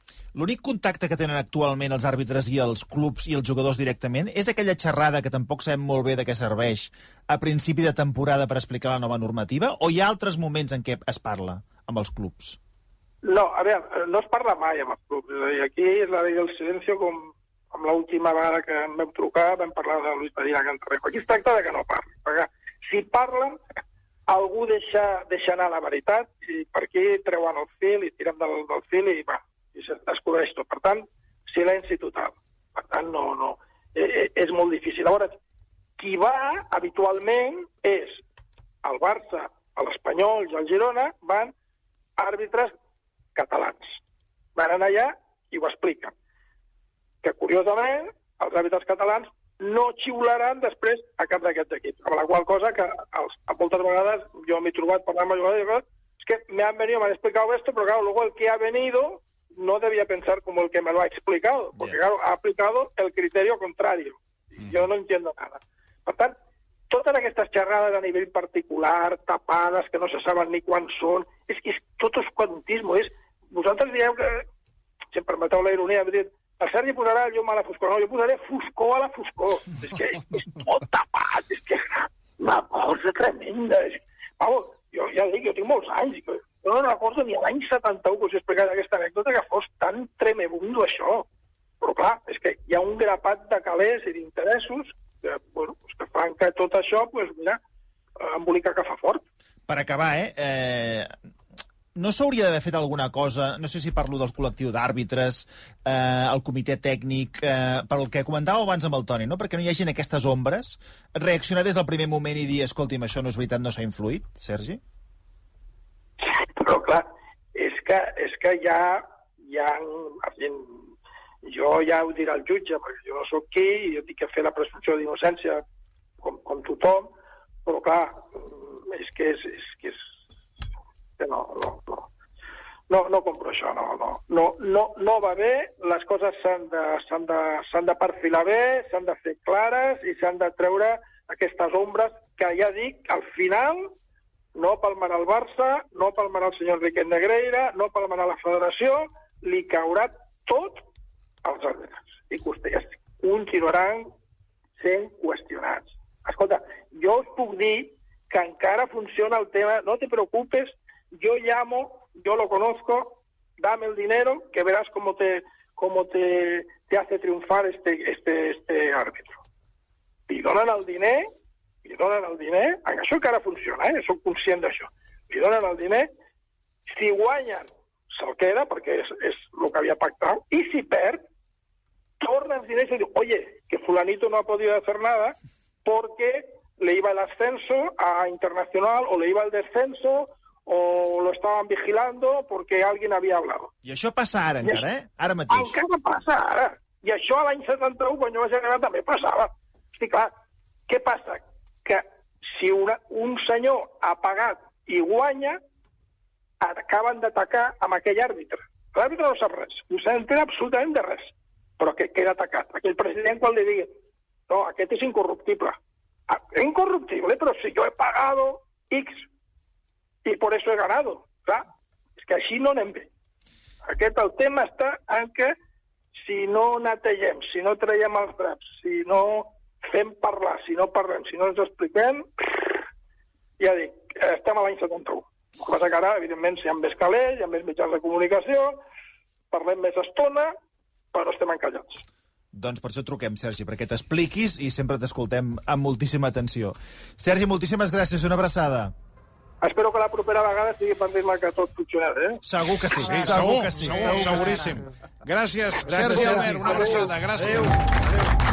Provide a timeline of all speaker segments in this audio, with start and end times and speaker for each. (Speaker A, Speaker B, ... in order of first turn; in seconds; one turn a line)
Speaker A: 0.3-12.6
Speaker B: 13.2-23.6
Speaker B: 24.3-35.4
Speaker B: 36.0-38.2
Speaker B: 38.8-41.5
Speaker B: 42.2-42.7
Speaker B: 43.3-44.0
Speaker B: 44.5-46.1
Speaker B: 47.2-66.3
Speaker B: 66.9-74.4
Speaker B: 75.1-91.3
Speaker B: 91.8-97.6
Speaker B: 98.2-99.2
Speaker A: 99.7-101.1
Speaker A: 101.9-114.8
Speaker B: 116.3-120.8
Speaker B: 121.4-125.6
Speaker B: 126.2-127.1
Speaker B: 127.7-130.0
Speaker B: 131.2-132.1
Speaker B: 132.9-143.9
Speaker B: 144.5-150.8
Speaker B: 151.4-154.1
Speaker B: 154.8-169.4
Speaker B: 170.3-171.3
Speaker B: 171.8-176.1
Speaker B: 176.9-181.2
Speaker B: 182.2-193.7
Speaker A: 193.8-195.7
Speaker B: 195.5-200.3
Speaker B: 200.9-205.6
Speaker B: 206.6-213.9
Speaker B: 214.5-215.8
Speaker B: 216.3-219.3
Speaker B: 220.2-221.7
Speaker B: 222.2-223.1
Speaker B: 223.8-225.5
Speaker B: 226.2-232.7
Speaker B: 233.6-238.8
Speaker B: 239.5-240.5
Speaker B: 241.1-242.0
Speaker A: 242.5-248.9
Speaker B: 249.6-252.4
Speaker A: 252.4-254.8
Speaker C: 253.0-257.8
Speaker A: 255.8-257.8
Speaker B: 256.3-257.0